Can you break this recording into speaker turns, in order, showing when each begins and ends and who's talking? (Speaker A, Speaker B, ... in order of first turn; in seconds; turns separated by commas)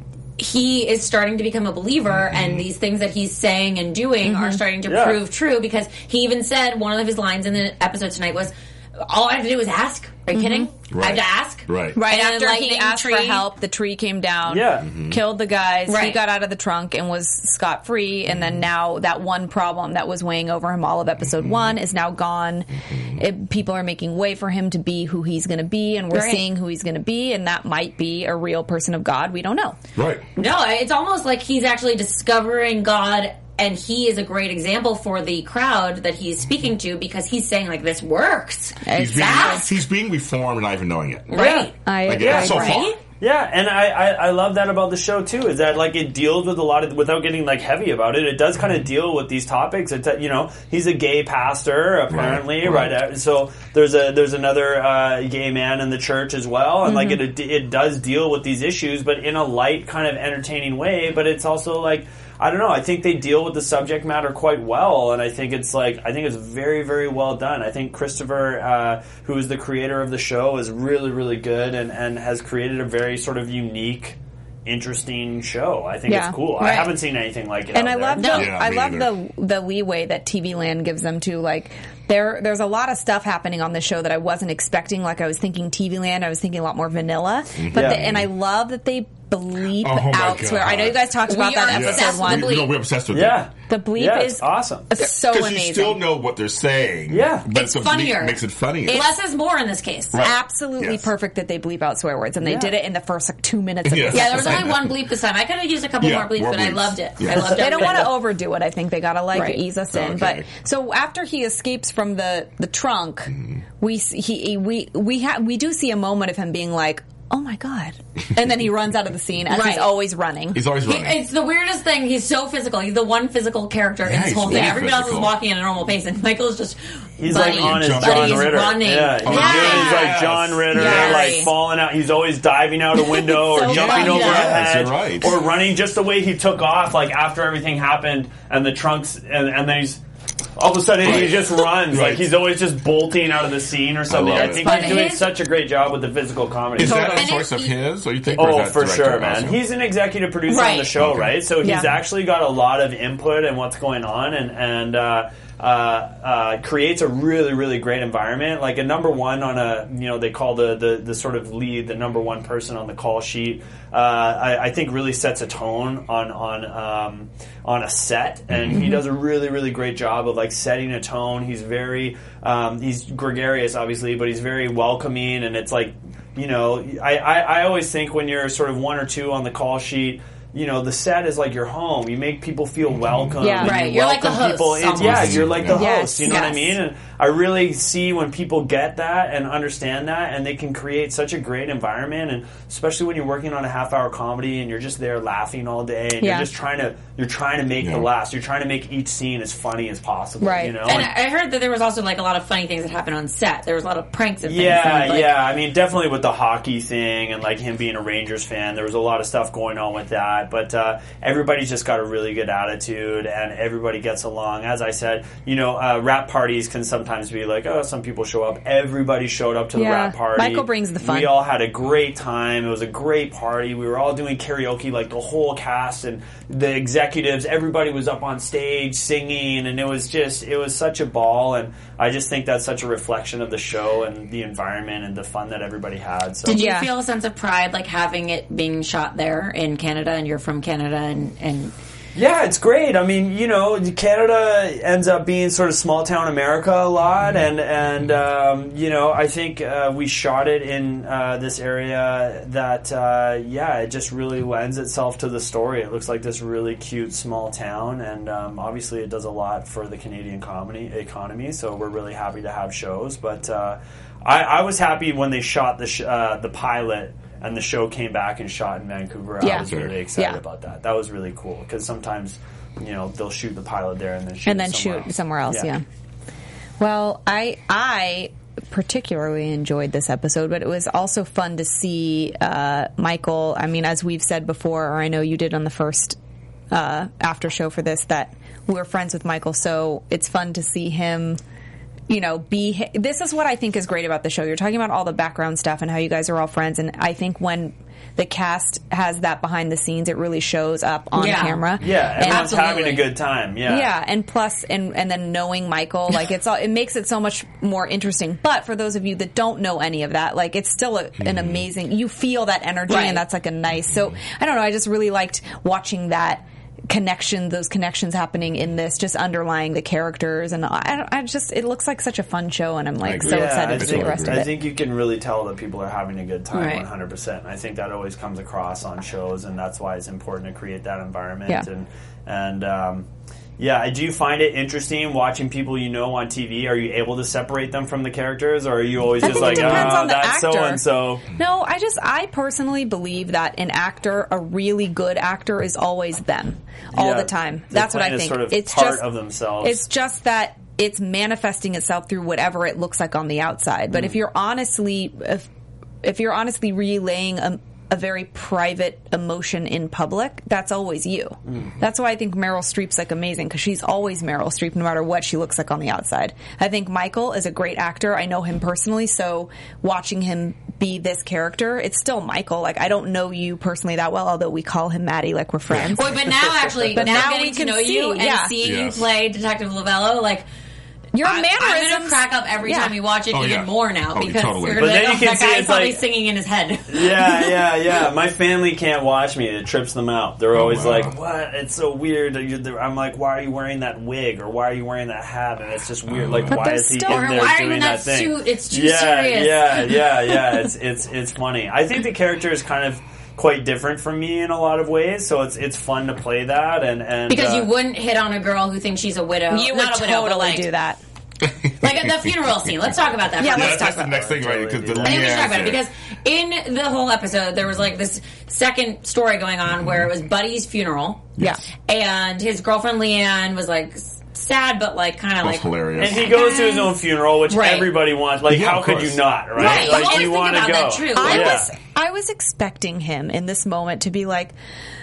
Speaker A: 0.4-13.5, Speaker B: 2.3-2.6, Speaker C: 4.2-4.6, Speaker D: 4.8-5.2, Speaker C: 10.3-10.7, Speaker B: 10.9-12.0, Speaker C: 11.9-29.8, Speaker D: 14.5-14.9, Speaker B: 14.9-15.2, Speaker A: 15.9-16.2, Speaker B: 18.3-18.6, Speaker B: 21.4-21.7, Speaker A: 26.1-26.4, Speaker B: 29.9-30.2, Speaker A: 30.4-39.7, Speaker C: 38.8-39.7, Speaker B: 38.9-41.3, Speaker A: 41.3-43.0, Speaker D: 41.3-42.7, Speaker C: 41.8-42.9, Speaker B: 42.0-42.9, Speaker D: 43.2-78.4, Speaker B: 52.1-53.0, Speaker C: 56.9-57.2, Speaker C: 76.1-76.6, Speaker A: 76.6-76.9, Speaker C: 77.7-92.7, Speaker A: 78.1-78.5, Speaker B: 78.3-79.1, Speaker B: 87.6-88.3, Speaker D: 87.7-88.1, Speaker B: 89.8-91.0, Speaker A: 91.2-92.7, Speaker B: 91.7-93.4, Speaker D: 93.1-94.9, Speaker C: 93.7-96.0, Speaker B: 95.3-99.0, Speaker D: 97.1-97.4, Speaker A: 97.5-100.2, Speaker C: 98.9-99.1, Speaker B: 100.1-101.1, Speaker C: 100.1-104.8, Speaker D: 102.4-102.8, Speaker B: 103.8-105.0, Speaker A: 104.1-108.1, Speaker B: 106.0-107.5, Speaker C: 107.4-120.6, Speaker A: 109.3-109.6, Speaker B: 109.9-110.5, Speaker A: 119.5-119.9, Speaker B: 120.5-121.2, Speaker A: 120.8-130.2, Speaker B: 124.0-125.4, Speaker C: 124.5-124.8, Speaker D: 127.2-140.0, Speaker B: 127.3-131.1, Speaker C: 129.3-130.0, Speaker C: 130.7-131.5, Speaker A: 130.7-131.5, Speaker A: 133.1-134.7, Speaker B: 133.6-135.3, Speaker D: 140.6-147.3, Speaker B: 141.0-142.3, Speaker B: 144.1-144.9, Speaker A: 144.3-145.3, Speaker B: 146.8-149.6, Speaker A: 146.8-147.8, Speaker D: 148.3-201.1, Speaker A: 150.5-150.9, Speaker B: 150.9-151.4, Speaker C: 151.6-151.9, Speaker B: 168.5-168.8, Speaker C: 168.7-169.0, Speaker B: 183.0-183.5, Speaker C: 183.4-183.8, Speaker A: 183.6-185.6, Speaker B: 185.0-185.8, Speaker C: 185.7-186.7, Speaker A: 186.2-186.6, Speaker C: 196.2-196.5, Speaker B: 197.8-198.1, Speaker C: 200.4-200.9, Speaker A: 200.9-205.4, Speaker D: 204.4-236.6, Speaker C: 219.7-221.4, Speaker A: 236.4-241.7, Speaker C: 236.5-236.9, Speaker D: 242.1-275.7, Speaker C: 269.4-270.4, Speaker B: 269.5-269.9, Speaker C: 274.4-275.8, Speaker C: 276.8-286.2, Speaker C: 286.7-291.4, Speaker C: 292.1-302.6, Speaker A: 301.1-303.1, Speaker D: 301.8-303.9, Speaker C: 303.6-324.6, Speaker B: 311.2-311.6, Speaker A: 312.9-313.2, Speaker B: 323.0-324.5, Speaker D: 323.2-333.1, Speaker A: 326.5-326.9, Speaker D: 333.6-341.2, Speaker C: 339.2-340.8, Speaker B: 339.2-340.0, Speaker C: 341.4-349.0, Speaker D: 346.9-349.8, Speaker C: 349.6-355.5, Speaker C: 356.0-376.3, Speaker B: 375.7-376.0, Speaker A: 375.9-380.4, Speaker D: 376.6-377.2, Speaker C: 376.9-378.6, Speaker B: 378.6-379.1, Speaker C: 381.1-382.9, Speaker A: 381.2-387.4, Speaker B: 383.3-385.1, Speaker D: 384.8-386.0, Speaker D: 386.9-407.7, Speaker B: 390.5-391.1, Speaker B: 396.1-396.6, Speaker C: 396.5-397.5, Speaker A: 397.0-399.9, Speaker A: 407.3-410.7, Speaker C: 409.5-411.0, Speaker B: 411.4-411.9, Speaker A: 411.8-414.1, Speaker C: 413.4-414.0, Speaker B: 413.4-415.8, Speaker D: 413.4-415.6, Speaker A: 415.0-421.3, Speaker B: 419.7-420.1, Speaker A: 421.9-426.9, Speaker B: 425.4-426.4, Speaker D: 426.0-431.7, Speaker A: 427.5-427.9, Speaker B: 428.5-429.9, Speaker A: 429.6-431.7, Speaker C: 429.6-430.4, Speaker C: 431.1-434.5